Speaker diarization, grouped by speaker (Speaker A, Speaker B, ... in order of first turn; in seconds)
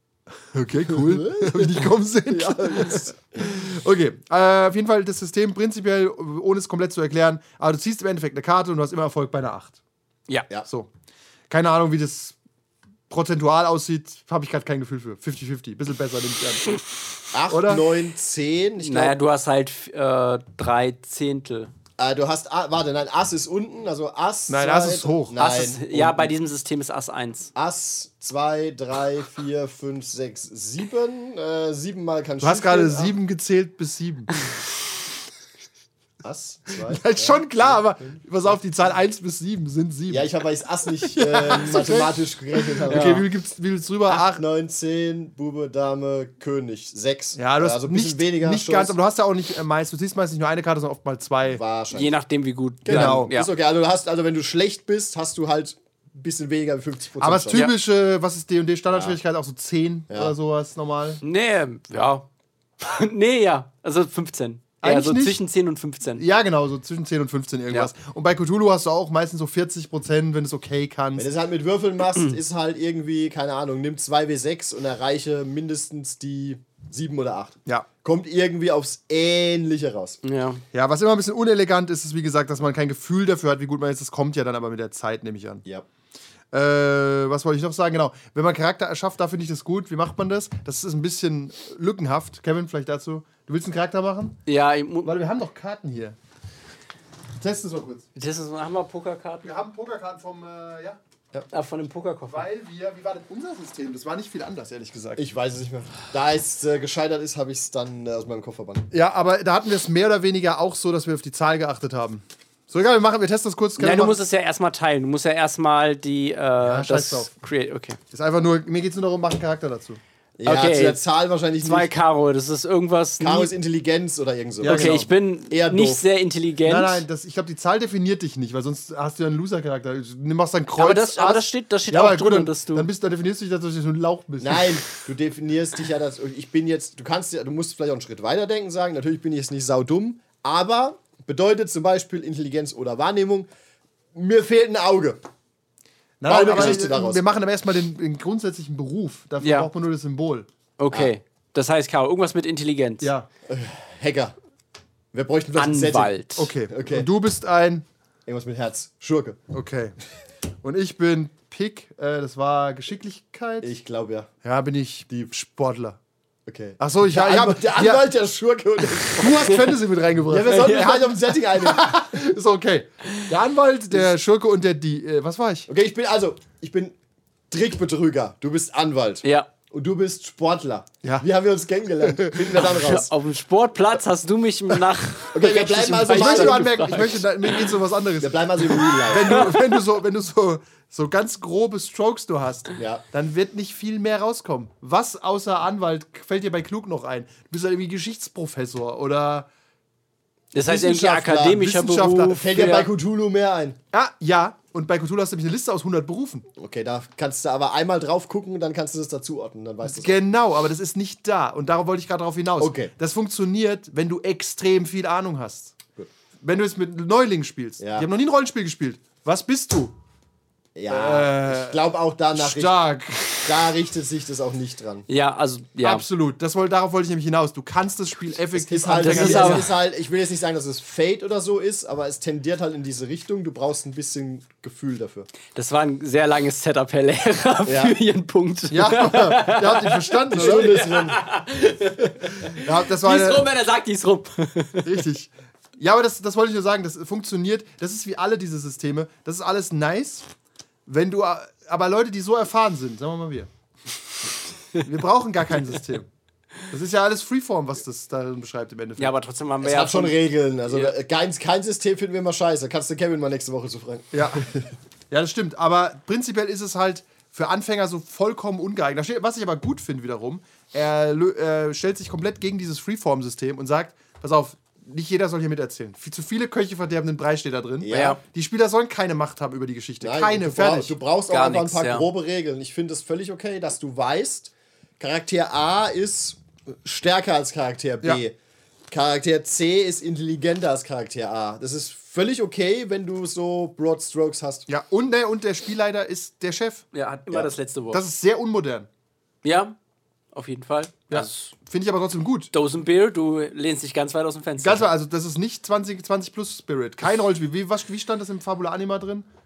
Speaker A: 0.5-9.8, 11.5-12.4, 13.1-16.7, 17.5-17.9, 24.5-25.4, 25.9-26.3, 32.4-34.3, 36.9-40.3, 41.4-44.4, 47.4-51.6, 52.9-53.3, 57.2-61.2, 64.8-65.4, 66.2-71.3, 80.7-85.6, 86.5-94.4, 95.0-96.2, 97.4-98.1, 99.4-101.0, 102.3-105.2, 108.9-114.2, 116.6-117.3, 118.1-120.0, 124.6-125.1, 126.7-134.7, 146.2-150.5, 153.0-153.3, 156.4-157.8, 159.5-159.9, 160.6-163.7, 164.4-166.0, 166.8-168.1, 169.0-175.7, 182.0-182.7, 186.1-199.5, 201.4-202.9, 203.9-206.4, 209.8-215.8, 216.4-219.9, 220.9-221.8, 222.3-223.7, 225.8-229.7, 238.7-240.7, 242.5-243.5, 244.8-250.3, 250.9-253.5, 254.8-256.1, 256.7-259.1, 264.1-264.4, 265.1-281.0, 294.7-296.9, 297.9-298.9, 301.1-302.5, 304.6-309.3
Speaker B: 0.9-3.5, 17.3-19.2, 22.0-25.9, 27.6-33.1, 36.2-38.2, 40.1-43.2, 44.1-48.9, 51.5-52.1, 52.8-57.6, 58.9-59.2, 60.1-60.3, 71.2-80.2, 105.2-108.9, 120.4-121.9, 123.2-126.0, 134.4-143.5, 144.2-145.2, 146.2-147.2, 153.5-154.3, 155.1-156.1, 156.7-157.1, 158.3-159.4, 163.6-164.3, 166.5-169.7, 170.3-172.0, 175.7-177.0, 177.5-183.1, 185.3-186.7, 188.2-189.6, 192.8-193.0, 200.6-201.6, 202.3-203.8, 206.6-210.2, 212.6-212.9, 217.8-218.1, 220.8-222.8, 223.4-225.1, 228.6-235.3, 237.7-238.0, 240.3-241.2, 259.6-264.7, 277.8-278.2, 280.0-288.4, 288.9-294.7
Speaker C: 18.8-21.7, 25.4-27.5, 42.9-43.2, 51.9-53.5, 61.2-62.2, 62.8-66.2, 80.2-80.6, 94.5-95.2, 98.2-99.5, 101.5-102.5, 113.8-118.0, 120.5-121.0, 121.6-123.5, 124.6-127.0, 130.8-132.9, 149.4-149.7, 150.8-153.1, 155.6-156.5, 170.5-171.0, 179.2-179.5, 182.6-187.6, 188.8-189.7, 200.5-202.9, 225.1-226.0, 228.9-229.7, 235.6-244.9, 259.0-260.9, 277.9-278.2, 281.3-282.1, 296.9-298.0, 299.4-299.8, 300.3-301.5, 302.5-304.9